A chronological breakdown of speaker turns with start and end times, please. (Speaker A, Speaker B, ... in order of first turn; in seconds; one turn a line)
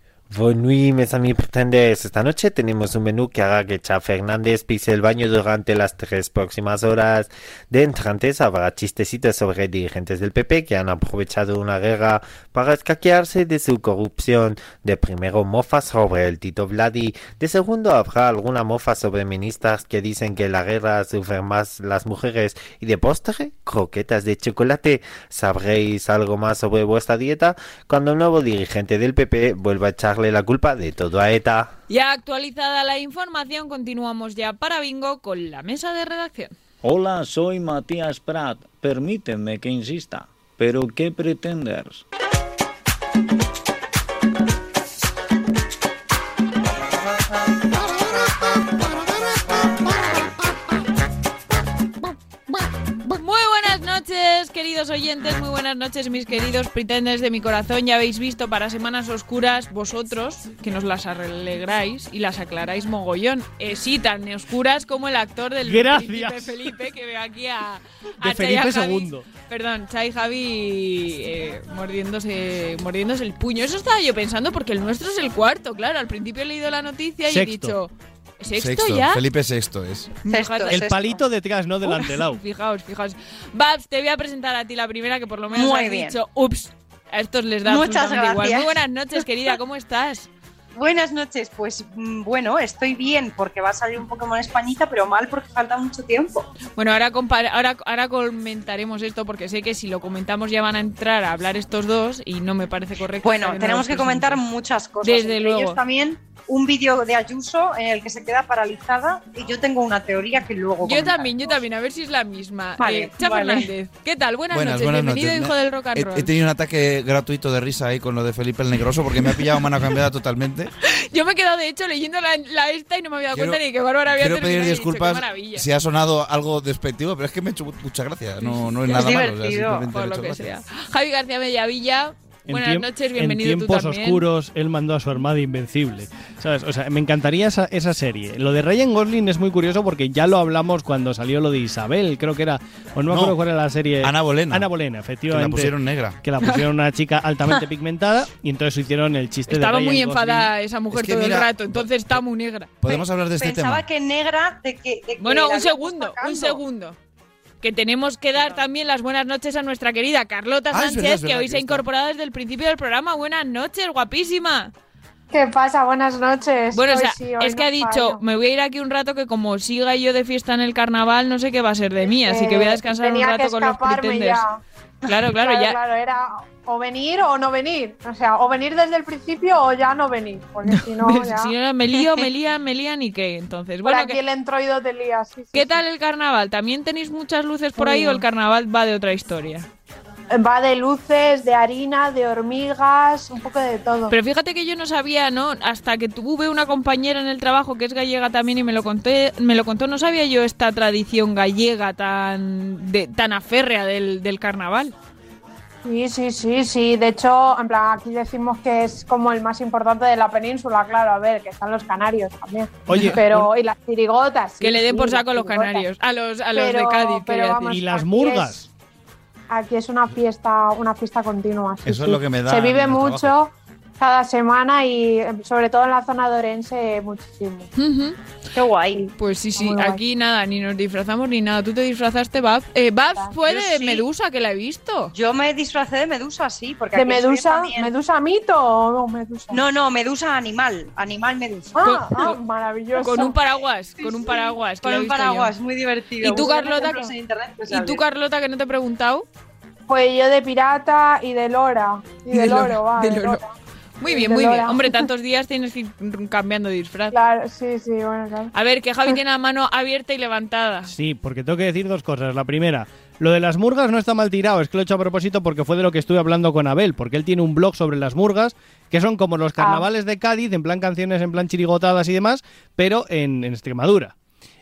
Speaker A: 0.3-31.7
Speaker B: 31.9-36.5
Speaker C: 36.8-42.0
Speaker B: 53.1-79.2
Speaker D: 65.6-66.7
Speaker D: 68.2-69.2
Speaker D: 77.2-77.8
Speaker E: 78.5-80.2
Speaker B: 80.2-80.8
Speaker F: 80.3-81.2
Speaker D: 80.7-82.4
Speaker B: 81.8-90.3
Speaker F: 85.5-86.2
Speaker F: 87.6-88.8
Speaker F: 90.7-96.5
Speaker B: 96.8-104.4
Speaker F: 103.2-111.6
Speaker B: 105.0-105.8
Speaker B: 110.8-116.3
Speaker F: 112.8-113.7
Speaker E: 114.5-120.7
Speaker B: 120.8-125.7
Speaker E: 123.3-130.5
Speaker B: 128.4-128.7
Speaker F: 128.8-129.9
Speaker B: 129.9-134.2
Speaker D: 132.5-150.5
Speaker E: 143.1-143.4
Speaker E: 144.0-144.7
Speaker E: 145.3-146.2
Speaker B: 149.5-153.0
Speaker E: 150.9-152.2
Speaker E: 152.8-153.8
Speaker F: 153.3-156.6
Speaker B: 155.2-157.0
Speaker B: 157.6-164.7
Speaker F: 158.4-158.6
Speaker E: 160.7-161.8
Speaker G: 165.3-168.2
Speaker B: 166.7-174.4
Speaker G: 172.1-174.6
Speaker B: 175.1-175.8
Speaker G: 175.4-181.5
Speaker B: 180.7-184.2
Speaker G: 183.8-185.8
Speaker B: 185.5-189.7
Speaker G: 187.8-188.2
Speaker G: 190.3-194.2
Speaker B: 194.1-204.9
Speaker G: 205.8-215.8
Speaker D: 212.9-213.5
Speaker B: 214.6-217.6
Speaker G: 216.5-218.7
Speaker D: 217.7-218.7
Speaker G: 219.5-227.7
Speaker E: 221.8-223.3
Speaker B: 227.8-228.2
Speaker F: 228.5-229.1
Speaker G: 229.0-230.0
Speaker B: 229.2-235.1
Speaker F: 233.4-234.0
Speaker F: 235.1-237.9
Speaker G: 236.9-239.6
Speaker F: 239.5-241.8
Speaker G: 241.8-243.3
Speaker B: 241.8-242.4
Speaker B: 243.0-245.5
Speaker F: 244.0-248.0
Speaker B: 246.2-247.1
Speaker B: 247.7-249.2
Speaker G: 249.9-253.5
Speaker B: 252.3-253.4
Speaker B: 254.0-257.1
Speaker G: 254.1-255.1
Speaker G: 257.1-258.5
Speaker B: 258.5-260.9
Speaker D: 260.9-274.1
Speaker G: 269.6-269.9